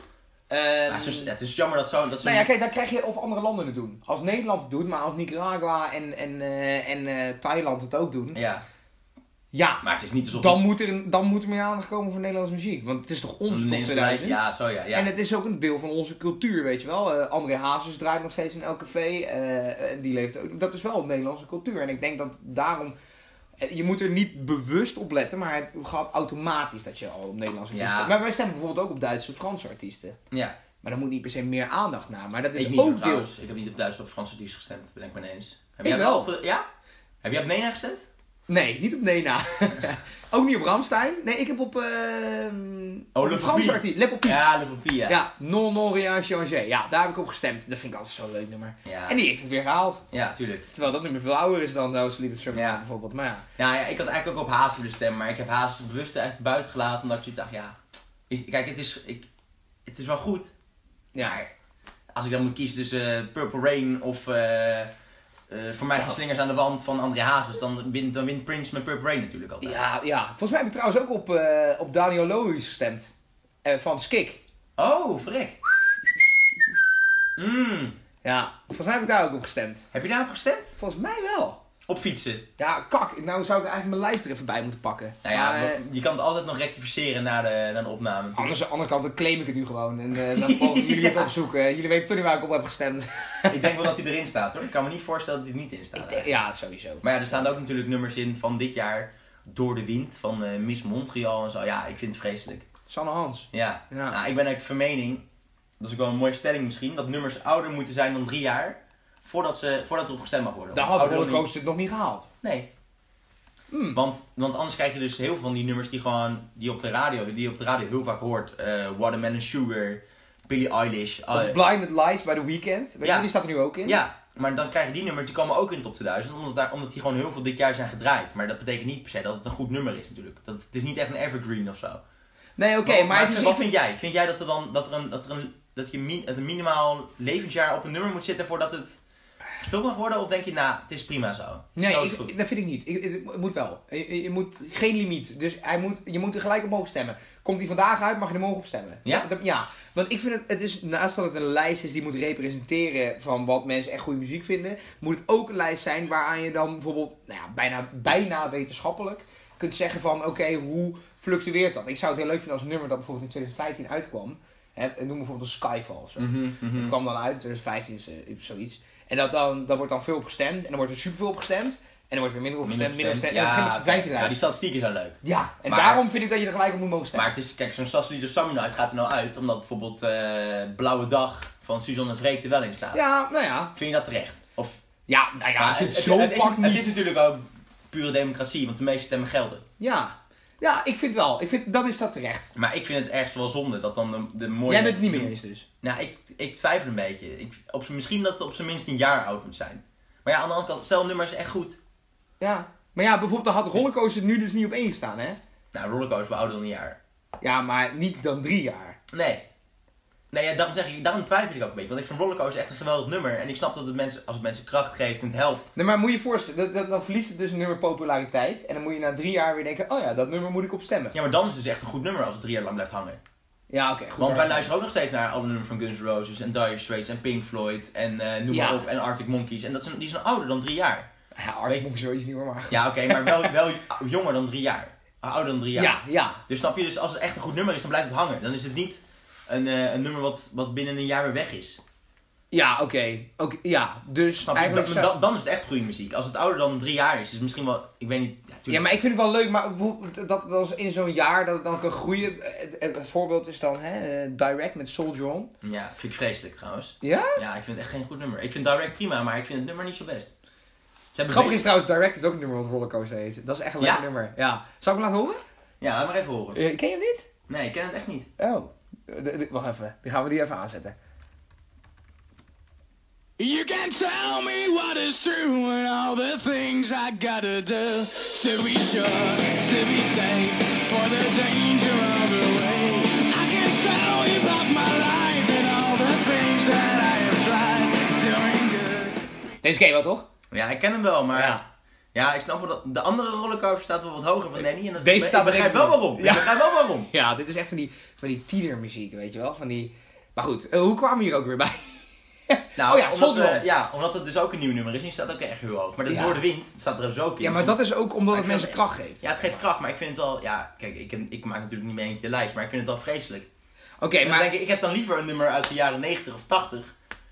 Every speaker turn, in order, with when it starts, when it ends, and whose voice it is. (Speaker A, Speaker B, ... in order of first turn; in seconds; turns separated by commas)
Speaker A: 0.5-1.3, Speaker B: 0.9-2.5, Speaker A: 2.2-8.4, Speaker B: 8.3-8.6, Speaker A: 9.5-22.9, Speaker B: 9.8-10.6, Speaker B: 13.5-15.1, Speaker A: 23.6-30.2, Speaker B: 27.7-28.1, Speaker B: 30.3-30.6, Speaker A: 30.8-33.3, Speaker B: 32.5-36.6, Speaker A: 35.8-36.3, Speaker B: 37.2-38.0, Speaker A: 38.5-44.4, Speaker B: 43.1-45.2, Speaker A: 45.0-50.0, Speaker B: 48.8-49.2, Speaker B: 50.1-50.7, Speaker A: 50.7-53.4, Speaker B: 52.5-52.8, Speaker B: 53.6-57.8, Speaker B: 58.3-59.3, Speaker B: 59.9-60.5, Speaker A: 61.1-61.4, Speaker B: 61.2-61.5, Speaker B: 62.1-64.9, Speaker B: 65.5-69.8, Speaker A: 69.6-73.1, Speaker A: 73.6-74.4, Speaker B: 74.8-75.7, Speaker B: 77.3-78.0, Speaker A: 78.2-79.9, Speaker B: 79.9-80.7, Speaker A: 80.8-81.6, Speaker B: 81.9-82.4, Speaker A: 82.6-85.8, Speaker B: 85.2-88.5, Speaker A: 88.3-93.8, Speaker B: 90.2-91.3, Speaker B: 93.5-96.3, Speaker A: 95.9-97.5, Speaker B: 97.0-102.7, Speaker A: 102.9-104.2, Speaker B: 103.5-105.2, Speaker B: 105.8-111.5, Speaker A: 110.7-112.3, Speaker B: 112.4-112.7, Speaker A: 113.7-114.0, Speaker B: 113.9-121.7, Speaker A: 121.3-124.0, Speaker B: 123.0-123.3, Speaker B: 123.8-132.0, Speaker A: 132.6-133.7, Speaker B: 132.8-139.0, Speaker B: 139.6-142.3, Speaker A: 141.8-174.4, Speaker B: 166.2-166.9, Speaker B: 172.6-176.0, Speaker A: 175.2-177.3, Speaker B: 177.1-183.0, Speaker A: 182.9-183.7, Speaker B: 183.7-184.8, Speaker A: 185.1-186.9, Speaker B: 185.6-189.6, Speaker A: 189.8-192.5, Speaker B: 192.5-201.8, Speaker A: 194.7-195.7, Speaker A: 202.4-205.4, Speaker B: 205.7-207.0, Speaker A: 207.4-209.0, Speaker B: 209.1-209.4, Speaker B: 210.3-215.7, Speaker A: 215.7-221.1, Speaker B: 221.1-223.2, Speaker A: 223.7-224.8, Speaker B: 224.2-231.1, Speaker A: 228.5-228.8, Speaker A: 231.3-233.5, Speaker B: 232.7-241.8, Speaker A: 235.8-236.4, Speaker A: 242.5-245.1, Speaker B: 244.4-248.8, Speaker A: 248.7-255.5, Speaker B: 255.6-260.3, Speaker A: 257.0-257.4, Speaker B: 261.1-261.6, Speaker A: 261.3-265.4, Speaker B: 265.8-266.6, Speaker A: 266.5-267.3, Speaker B: 267.5-268.3, Speaker A: 268.4-270.9, Speaker C: 273.4-289.1, Speaker A: 289.6-290.3, Speaker B: 290.5-291.6, Speaker A: 291.3-291.6, Speaker B: 292.1-297.1, Speaker A: 295.0-303.6, Speaker B: 302.8-307.8, Speaker A: 306.1-306.4, Speaker A: 307.4-309.6, Speaker B: 308.3-313.5, Speaker A: 314.0-314.5, Speaker B: 314.2-316.9